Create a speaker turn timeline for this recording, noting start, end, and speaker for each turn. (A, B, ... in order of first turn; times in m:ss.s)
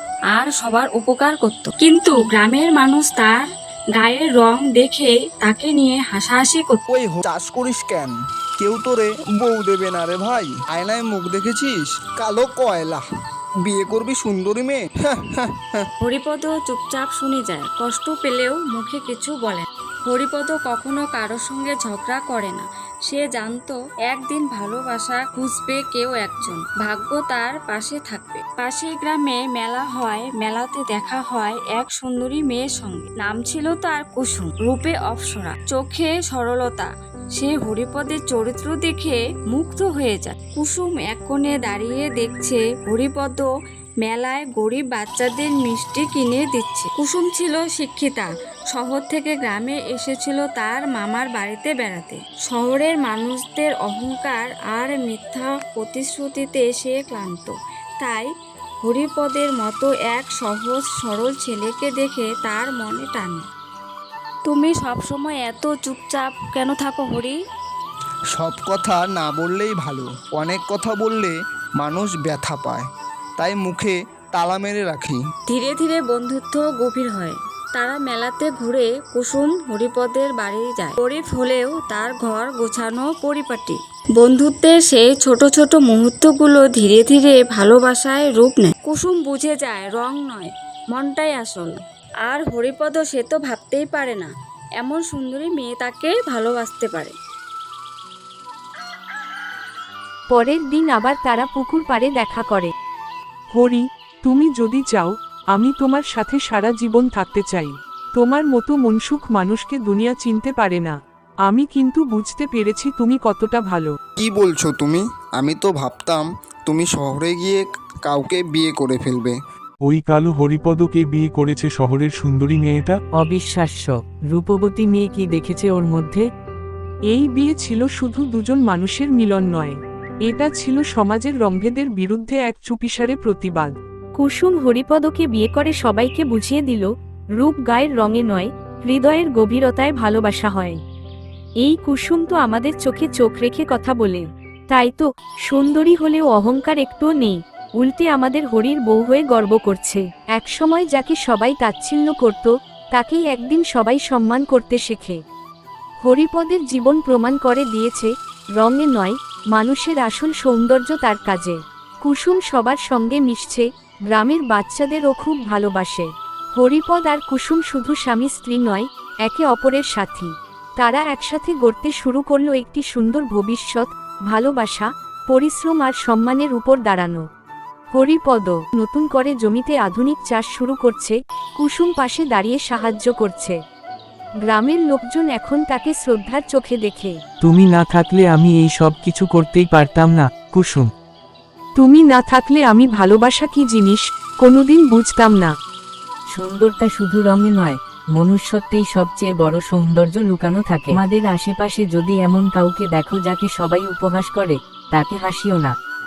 0:00.3-0:06.8 A
0:06.9-0:13.0 B
0:13.6-0:15.8 B
0:16.0-0:43.5 A
0:44.0-0:58.3 A
0:58.8-1:03.4 A
1:04.5-1:07.4 A
1:08.4-1:15.2 B
1:15.5-1:37.2 A
1:40.3-1:42.7 C
1:43.5-1:51.0 D
1:51.5-1:53.9 D
1:54.2-1:59.4 B
1:59.8-2:03.0 E
2:03.2-2:03.8 F
2:04.4-2:06.2 F
2:07.1-2:13.7 D
2:14.2-2:20.8 C
2:21.6-2:35.2 C
2:36.0-2:57.2 C
2:57.9-3:03.6 C
3:04.5-3:07.2 C
3:07.4-3:10.9 F
3:11.8-3:15.5 D
3:16.3-3:25.8 G